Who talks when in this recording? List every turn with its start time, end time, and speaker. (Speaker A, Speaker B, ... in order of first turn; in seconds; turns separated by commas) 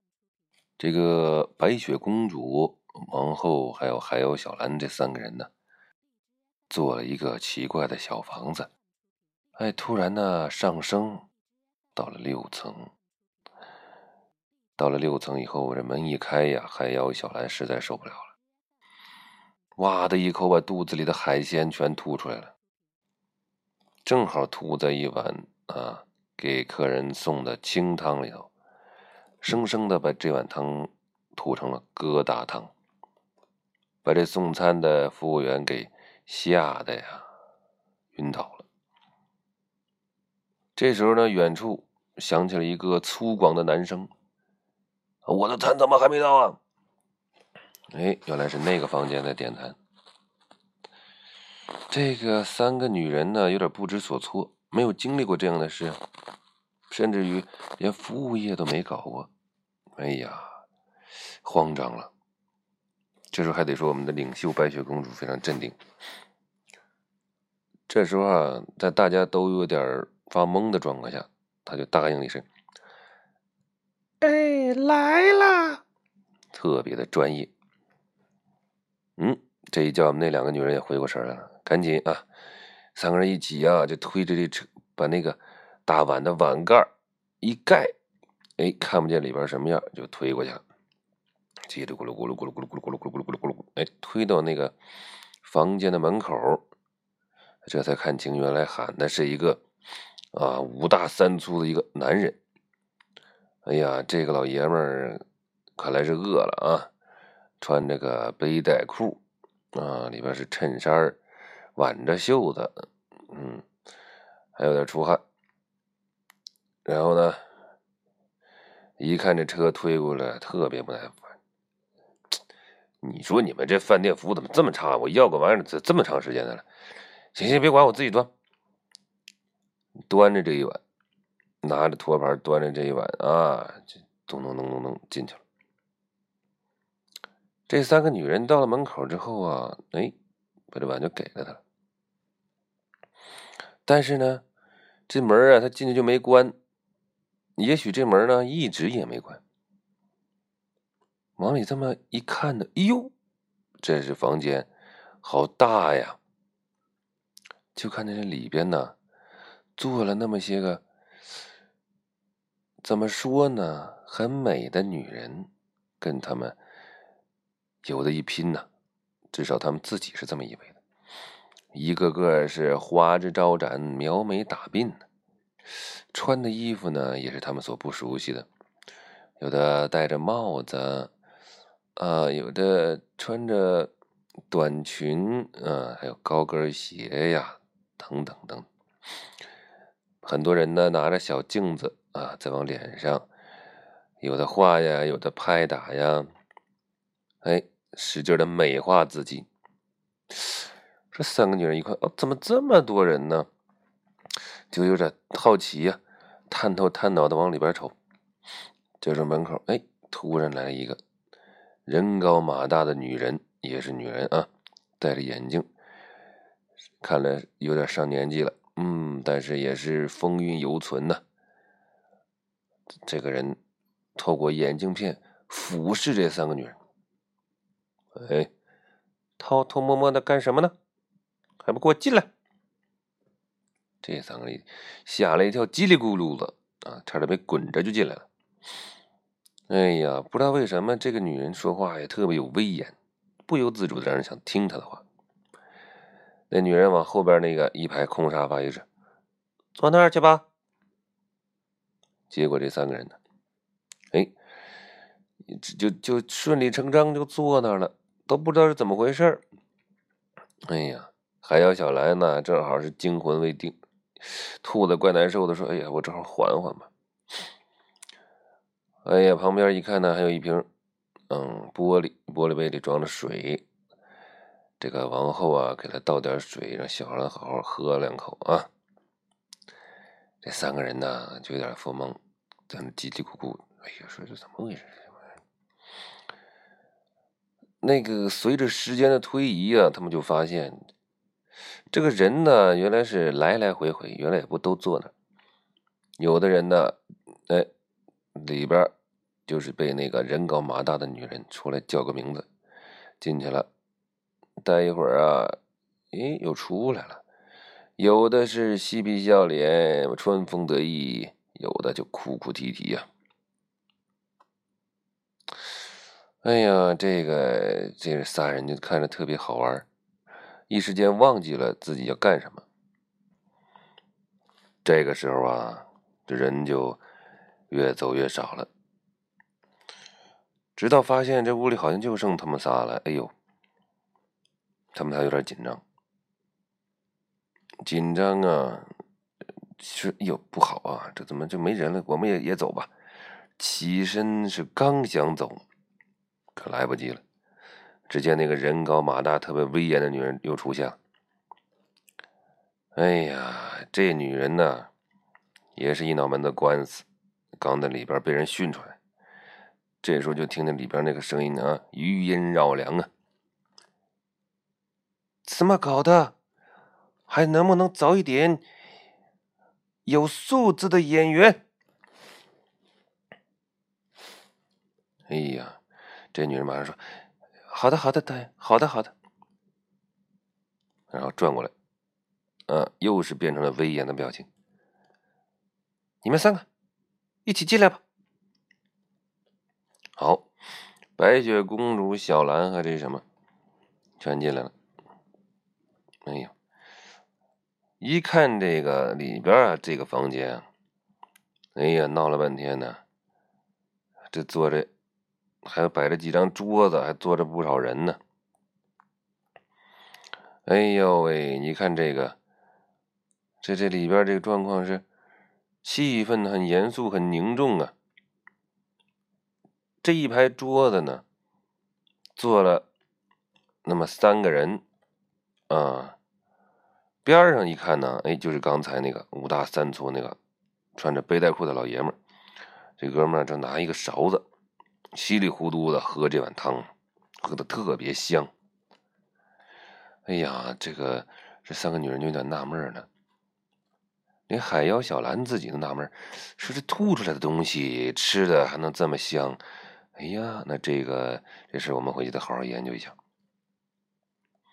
Speaker A: 0.8-5.5, Speaker A: 6.7-8.7, Speaker A: 9.6-11.2, Speaker A: 11.9-12.9, Speaker A: 14.8-18.3, Speaker A: 19.8-22.5, Speaker A: 24.0-28.5, Speaker A: 29.4-32.7, Speaker A: 34.0-37.3, Speaker A: 38.1-38.6, Speaker A: 40.8-44.1, Speaker A: 45.2-46.6, Speaker A: 47.9-49.8, Speaker A: 51.9-56.0, Speaker A: 56.9-59.3, Speaker A: 60.0-60.6, Speaker A: 61.4-62.1, Speaker A: 63.3-65.8, Speaker A: 67.9-72.4, Speaker A: 74.2-75.8, Speaker A: 76.5-77.5, Speaker A: 79.2-82.2, Speaker A: 82.9-86.9, Speaker A: 87.4-87.9, Speaker A: 88.6-90.6, Speaker A: 91.7-94.7, Speaker A: 95.4-96.6, Speaker A: 97.6-99.6, Speaker A: 100.3-102.4, Speaker A: 103.7-105.2, Speaker A: 105.8-106.9, Speaker A: 107.6-109.2, Speaker A: 109.7-111.2, Speaker A: 111.8-112.7, Speaker A: 113.3-113.7, Speaker A: 114.5-115.2, Speaker A: 116.8-117.4, Speaker A: 119.0-121.3, Speaker A: 123.0-126.6, Speaker A: 127.3-128.3, Speaker A: 130.1-130.8, Speaker A: 131.6-135.4, Speaker A: 137.7-140.1, Speaker A: 140.7-141.6, Speaker A: 143.8-144.4, Speaker A: 145.1-146.5, Speaker A: 147.6-149.4, Speaker A: 151.4-153.1, Speaker A: 153.8-154.7, Speaker A: 155.2-156.2, Speaker A: 157.7-158.9, Speaker A: 159.8-160.8, Speaker A: 162.8-165.5, Speaker A: 166.0-166.6, Speaker A: 167.8-168.7, Speaker A: 169.3-170.8, Speaker A: 171.7-175.0, Speaker A: 176.1-178.5, Speaker A: 179.4-181.1, Speaker A: 182.0-183.9, Speaker A: 184.5-188.7, Speaker A: 190.2-193.3, Speaker A: 194.2-196.3, Speaker A: 197.4-199.5, Speaker A: 200.3-203.5, Speaker A: 204.7-207.9, Speaker A: 209.0-211.0, Speaker A: 211.8-215.7, Speaker A: 217.0-221.2, Speaker A: 223.1-223.6, Speaker A: 224.2-226.8, Speaker A: 228.1-228.5, Speaker A: 229.4-230.7, Speaker A: 231.6-232.3, Speaker A: 234.0-238.3, Speaker A: 239.7-245.0, Speaker A: 246.5-248.8, Speaker A: 249.8-250.4, Speaker A: 252.3-253.2, Speaker A: 255.4-259.4, Speaker A: 260.7-266.9, Speaker A: 269.0-270.6, Speaker A: 271.3-273.6, Speaker A: 274.8-278.7, Speaker A: 280.4-285.1, Speaker A: 287.8-290.8, Speaker A: 291.9-295.1, Speaker A: 296.2-297.0, Speaker A: 298.3-298.9, Speaker A: 299.5-302.4, Speaker A: 303.2-303.7, Speaker A: 304.6-305.5, Speaker A: 306.1-307.2, Speaker A: 308.0-313.1, Speaker A: 316.4-319.9, Speaker A: 320.7-322.6, Speaker A: 324.8-327.0, Speaker A: 327.7-328.7, Speaker A: 330.8-333.3, Speaker A: 334.9-335.8, Speaker A: 337.8-338.9, Speaker A: 339.8-342.9, Speaker A: 343.6-345.6, Speaker A: 346.5-347.2, Speaker A: 348.1-351.0, Speaker A: 352.9-354.9, Speaker A: 355.8-357.1, Speaker A: 357.6-359.0, Speaker A: 360.0-363.1, Speaker A: 365.4-366.3, Speaker A: 367.3-368.6, Speaker A: 370.1-371.6, Speaker A: 375.3-375.8, Speaker A: 376.3-377.0, Speaker A: 377.7-379.1, Speaker A: 381.1-381.7, Speaker A: 382.7-384.5, Speaker A: 386.2-386.6, Speaker A: 387.4-388.0, Speaker A: 390.2-390.5, Speaker A: 391.1-393.2, Speaker A: 394.2-394.7, Speaker A: 396.2-396.5, Speaker A: 398.0-400.6, Speaker A: 401.8-403.0, Speaker A: 404.3-404.9, Speaker A: 405.6-408.2, Speaker A: 410.6-412.4, Speaker A: 413.6-415.0, Speaker A: 415.8-417.9, Speaker A: 420.0-421.2, Speaker A: 422.4-422.8, Speaker A: 423.8-424.8, Speaker A: 425.7-426.1, Speaker A: 427.2-430.4, Speaker A: 430.9-432.1, Speaker A: 433.0-434.4, Speaker A: 435.1-438.5, Speaker A: 440.3-443.1, Speaker A: 444.5-449.6, Speaker A: 450.1-453.2